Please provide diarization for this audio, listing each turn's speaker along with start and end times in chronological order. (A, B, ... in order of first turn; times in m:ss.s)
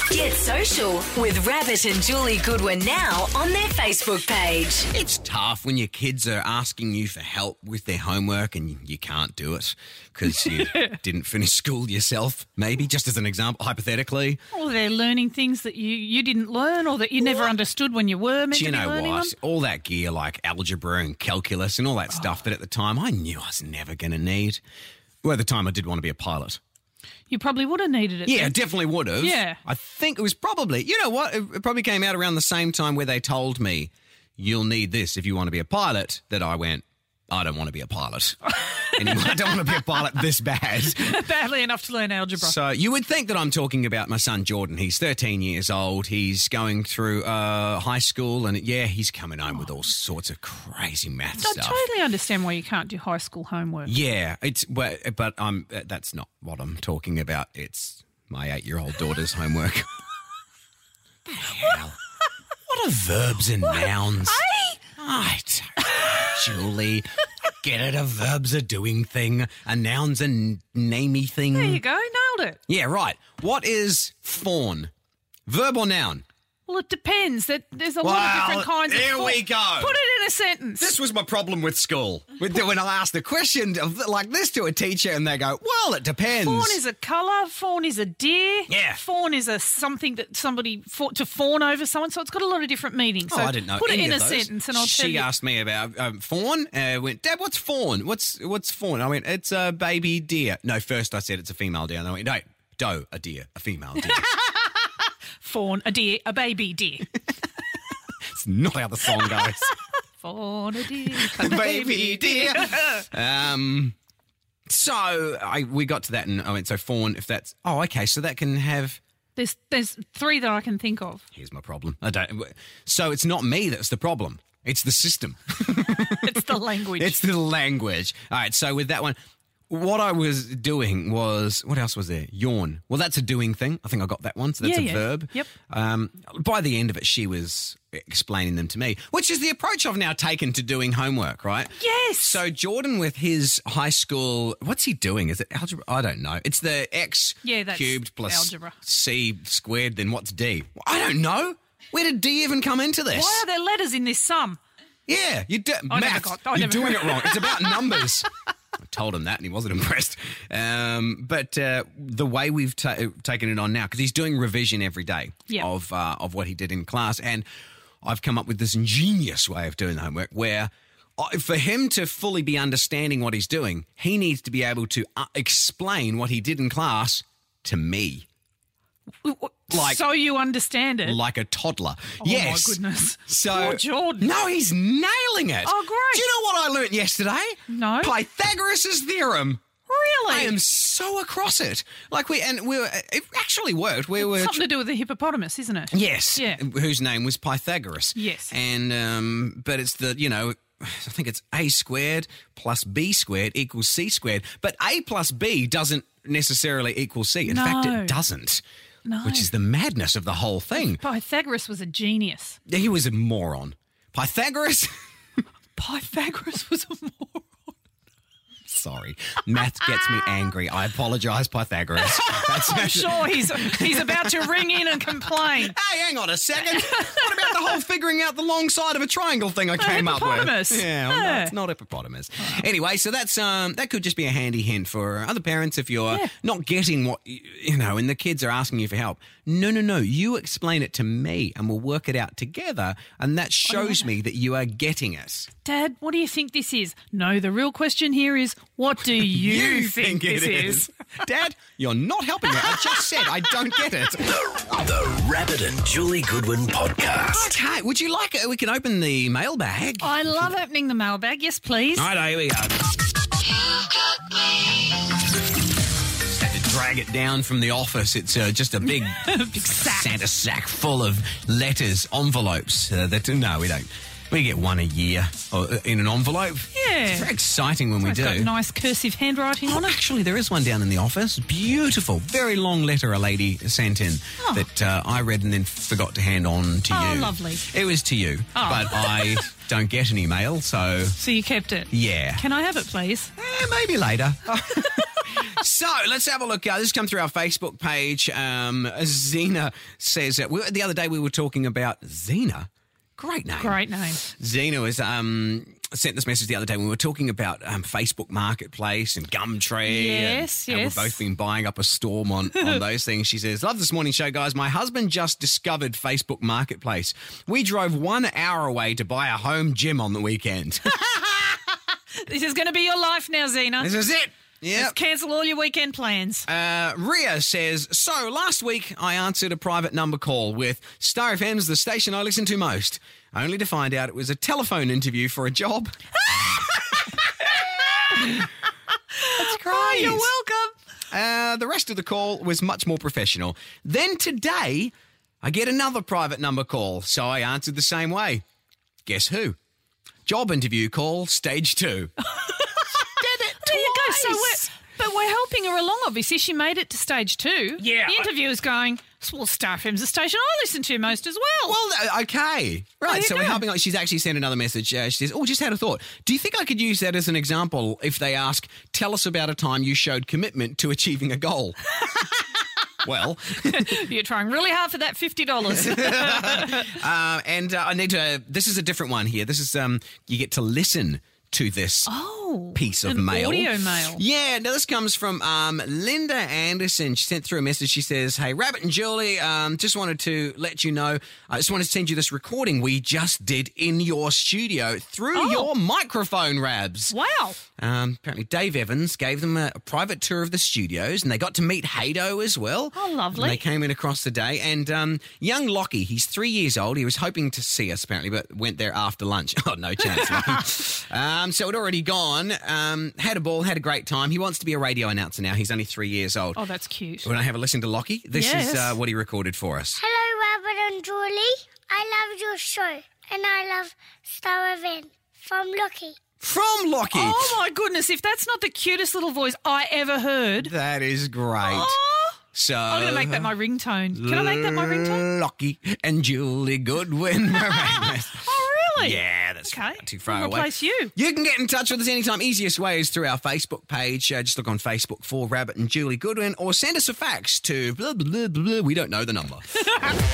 0:00.1-0:04.9 A
0:04.9-0:14.4 B
0:10.4-0:10.9 C
0:14.5-0:19.3 C
0:17.2-0:17.5 B
0:18.5-0:24.6 B
0:25.2-0:26.6 B
0:27.3-0:29.6 C
0:28.2-0:41.2 B
0:38.6-0:40.0 C
0:40.8-0:42.6 C
0:42.4-0:51.8 B
0:51.4-0:53.9 C
0:53.8-0:59.9 B
1:01.3-1:02.0 B
1:02.6-1:04.4 B
1:03.7-1:04.8 C
1:05.0-1:11.8 B
1:11.5-1:12.6 C
1:12.7-1:14.9 B
1:15.5-1:16.2 B
1:16.6-1:20.9 C
1:18.0-1:20.0 B
1:20.8-1:26.8 B
1:26.3-1:35.3 C
1:28.7-1:29.0 B
1:33.3-1:44.3 B
1:45.4-1:47.1 C
1:48.2-1:49.7 B
1:50.2-1:53.0 C
1:51.0-1:54.0 B
1:54.7-1:59.0 B
1:59.4-2:01.2 C
2:01.3-2:09.2 B
2:06.1-2:07.2 C
2:09.7-2:33.4 B
2:14.6-2:15.5 C
2:21.8-2:22.4 C
2:27.4-2:28.8 C
2:33.1-2:34.6 C
2:35.1-2:38.3 B
2:35.9-2:38.0 C
2:38.8-2:47.5 B
2:48.0-2:58.3 B
2:59.2-3:01.2 C
2:59.7-3:00.0 B
3:01.0-3:09.6 B
3:02.2-3:04.3 C
3:05.6-3:06.3 C
3:07.7-3:08.1 C
3:09.9-3:10.6 C
3:10.3-3:14.7 B
3:14.2-3:16.6 C
3:15.9-3:28.6 B
3:18.1-3:18.5 C
3:27.5-3:28.2 C
3:29.0-3:29.5 C
3:29.2-3:31.0 B
3:30.8-3:32.6 C
3:32.7-3:34.9 B
3:35.8-3:37.7 C
3:38.6-4:05.5 B
3:42.0-3:45.8 C
3:46.6-3:47.6 C
3:49.8-3:51.5 C
4:03.7-4:04.0 C
4:05.6-4:10.9 C
4:09.2-4:14.4 B
4:14.5-4:17.5 D
4:17.3-4:20.5 B
4:20.0-4:22.1 C
4:22.0-4:23.2 B
4:26.2-4:38.5 B
4:28.8-4:30.2 C
4:36.7-4:37.3 C
4:38.0-4:40.0 C
4:39.7-4:51.2 B
4:44.4-4:44.6 C
4:46.9-4:47.6 C
4:48.5-4:49.4 C
4:51.2-4:53.3 C
4:51.9-4:52.4 B
4:53.4-5:21.3 B
5:03.6-5:04.2 C
5:09.8-5:11.2 C
5:22.2-5:23.9 C
5:23.8-5:25.0 B
5:24.7-5:26.4 C
5:26.5-5:36.0 B
5:37.6-5:38.4 B
5:37.9-5:38.2 C
5:39.2-5:40.7 C
5:39.3-5:40.3 B
5:41.1-5:48.4 B
5:49.0-5:49.6 B
5:50.2-5:52.1 B
5:52.8-5:54.7 B
5:53.6-6:01.8 C
5:57.8-5:58.3 B
6:01.6-6:12.0 B
6:03.0-6:03.6 C
6:13.0-6:14.0 B
6:13.7-6:16.9 C
6:15.7-6:22.1 B
6:22.0-6:24.2 C
6:22.7-6:37.2 B
6:35.3-6:35.7 C
6:37.1-6:37.6 C
6:37.8-6:56.6 B
6:42.9-6:43.6 C
6:56.6-6:57.3 C
6:57.2-7:00.0 B
6:58.3-6:59.0 C
7:00.0-7:06.2 E
7:06.4-7:07.6 B
7:07.1-7:10.7 C
7:10.6-7:12.0 B
7:11.6-7:15.3 C
7:12.5-7:13.5 B
7:14.1-7:18.4 B
7:17.6-7:21.1 C
7:18.9-7:29.8 B